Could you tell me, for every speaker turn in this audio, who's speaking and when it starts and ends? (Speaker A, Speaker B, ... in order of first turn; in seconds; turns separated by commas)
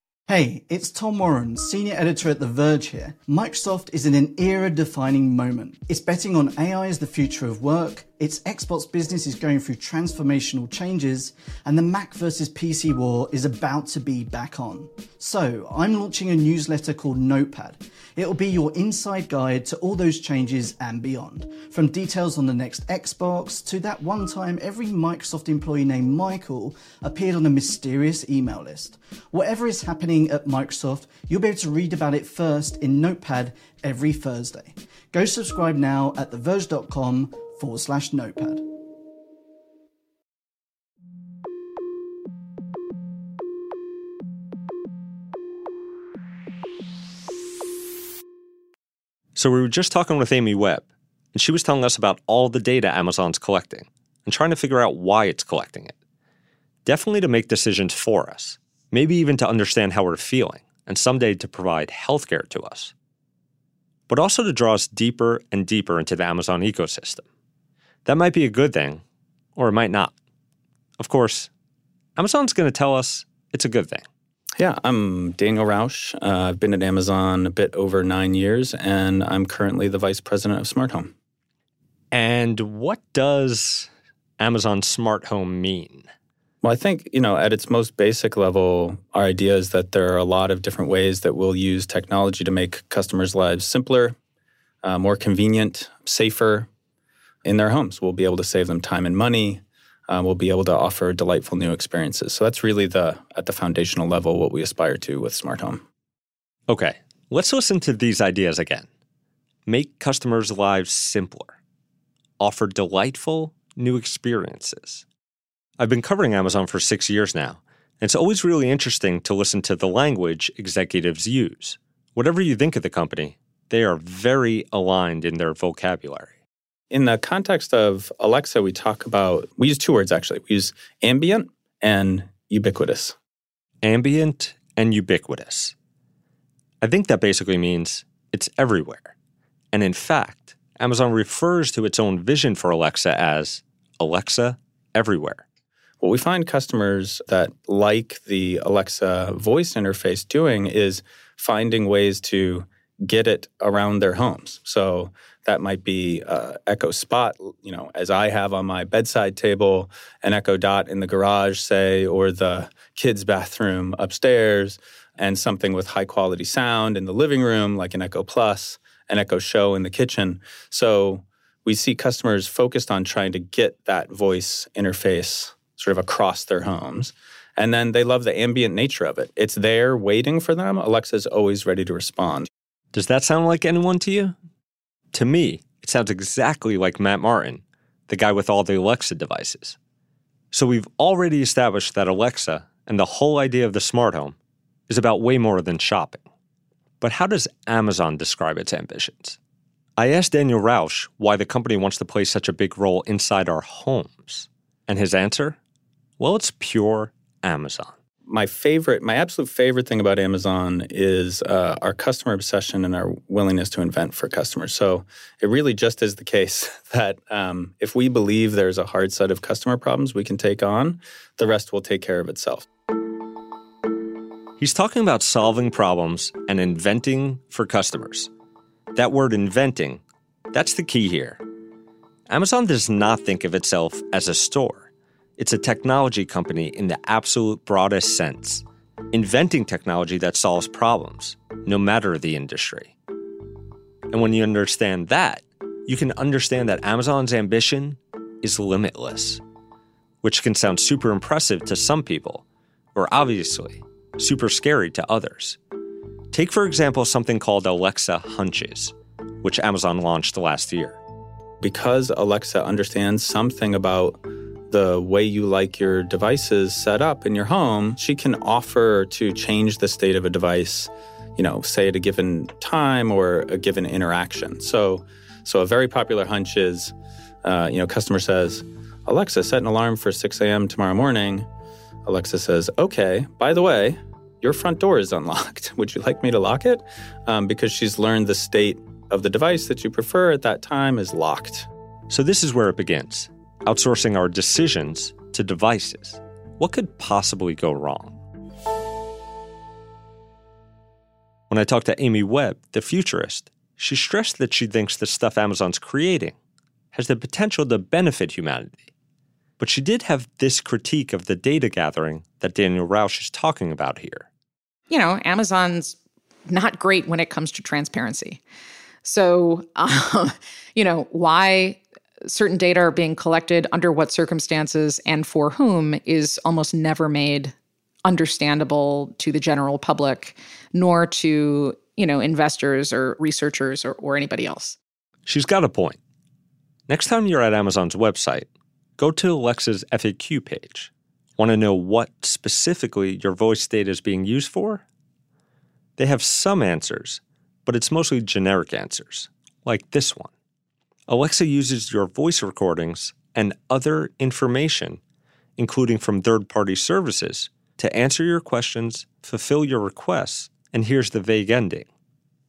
Speaker A: 0.3-38.7, Speaker B: 49.4-55.9, Speaker B: 56.9-62.9, Speaker B: 64.1-67.2, Speaker B: 68.1-69.0, Speaker B: 69.6-70.1, Speaker B: 71.0-71.5, Speaker B: 72.2-74.0, Speaker C: 74.6-81.1, Speaker B: 82.1-86.1, Speaker C: 86.6-94.2, Speaker C: 94.8-96.7, Speaker C: 97.5-105.8, Speaker B: 106.7-108.9, Speaker B: 109.7-111.5, Speaker B: 112.4-115.0, Speaker B: 115.8-126.3, Speaker C: 126.9-133.2, Speaker B: 133.8-135.7, Speaker B: 136.8-139.1, Speaker B: 139.7-145.4, Speaker C: 146.0-182.5, Speaker B: 182.9-184.4, Speaker B: 185.1-189.8, Speaker B: 190.5-194.4, Speaker B: 194.9-196.2, Speaker B: 197.0-199.4, Speaker B: 200.0-205.6, Speaker B: 206.2-207.9, Speaker C: 208.3-222.6, Speaker B: 224.6-228.3, Speaker B: 228.9-230.0, Speaker B: 230.5-231.4, Speaker B: 232.3-242.9, Speaker B: 244.1-249.4, Speaker B: 250.2-252.4, Speaker B: 252.9-255.6, Speaker B: 256.3-261.0, Speaker C: 261.6-276.9, Speaker C: 277.4-281.5, Speaker C: 282.1-291.7, Speaker B: 292.1-298.2, Speaker B: 301.5-306.4, Speaker B: 306.9-308.9, Speaker B: 309.6-314.3, Speaker D: 314.9-316.0, Speaker D: 316.5-318.4, Speaker D: 319.0-327.5, Speaker D: 328.1-334.8, Speaker B: 335.3-336.0, Speaker B: 336.9-338.5, Speaker B: 339.0-344.8, Speaker B: 346.0-350.3, Speaker B: 351.1-355.0, Speaker B: 355.6-361.9